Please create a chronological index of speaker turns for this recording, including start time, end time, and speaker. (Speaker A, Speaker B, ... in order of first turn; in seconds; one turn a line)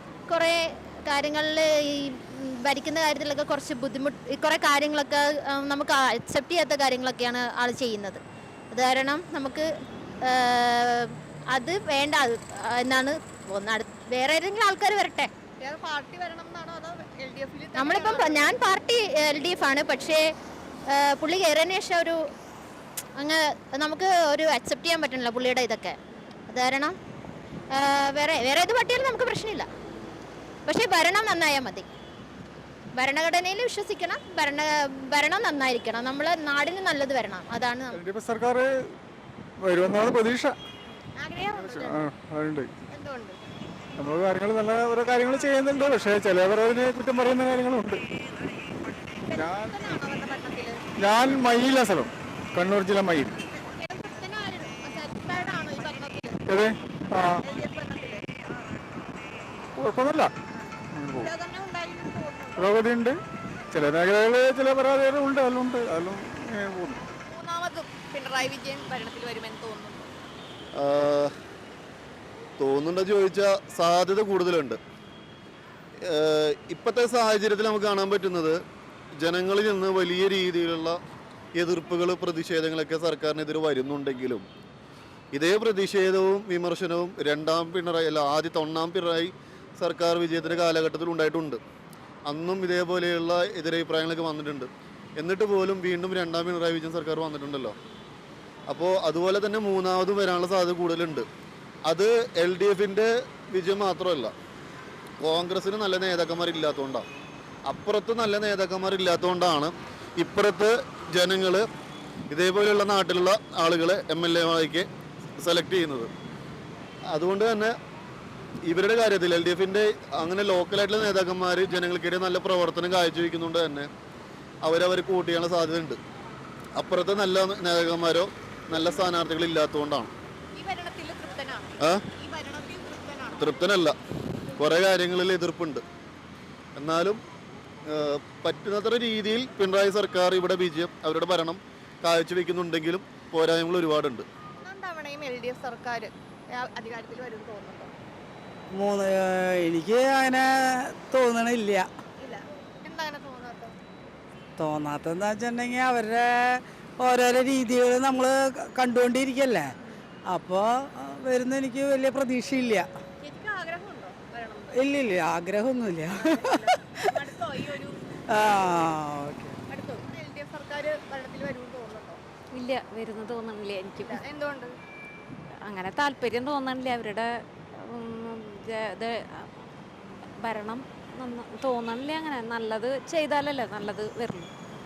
Speaker A: 0.3-8.2
Speaker A: 8.7-9.7
Speaker A: 10.3-15.3
Speaker B: 15.6-18.5
Speaker A: 17.8-20.3
Speaker A: 20.9-22.2
Speaker A: 23.2-26.0
Speaker A: 26.5-27.0
Speaker A: 27.7-29.7
Speaker A: 30.7-31.9
Speaker A: 33.0-38.0
Speaker C: 37.9-38.7
Speaker C: 39.6-40.5
Speaker B: 40.9-42.1
Speaker C: 41.6-42.7
Speaker B: 42.9-43.4
Speaker C: 44.0-48.0
Speaker B: 49.3-50.8
Speaker C: 49.3-49.9
Speaker C: 51.0-53.3
Speaker B: 53.5-56.4
Speaker C: 56.5-57.4
Speaker B: 57.4-58.2
Speaker C: 59.8-60.3
Speaker C: 60.9-61.3
Speaker B: 61.2-62.8
Speaker C: 62.6-63.2
Speaker C: 63.7-67.0
Speaker B: 67.2-70.1
Speaker D: 70.8-71.3
Speaker D: 72.6-74.8
Speaker D: 76.0-78.6
Speaker D: 79.2-81.0
Speaker D: 81.6-84.5
Speaker D: 85.3-91.6
Speaker D: 92.3-97.8
Speaker D: 98.7-101.3
Speaker D: 101.9-104.3
Speaker D: 105.2-107.0
Speaker D: 107.7-111.7
Speaker D: 112.3-114.9
Speaker D: 115.4-116.1
Speaker D: 117.1-117.7
Speaker D: 118.7-123.9
Speaker D: 124.6-126.0
Speaker D: 126.8-130.1
Speaker B: 130.6-133.6
Speaker D: 133.4-134.0
Speaker D: 134.6-135.8
Speaker D: 136.8-137.2
Speaker D: 137.9-144.3
Speaker B: 144.6-147.9
Speaker E: 148.7-151.9
Speaker B: 152.2-153.8
Speaker E: 154.6-159.7
Speaker E: 160.3-162.9
Speaker B: 163.2-164.9
Speaker E: 164.8-167.2
Speaker B: 166.1-169.0
Speaker E: 168.3-169.6
Speaker B: 169.7-172.2
Speaker F: 172.5-174.2
Speaker B: 173.9-174.7
Speaker F: 175.7-177.3
Speaker F: 177.9-179.5
Speaker F: 180.4-184.5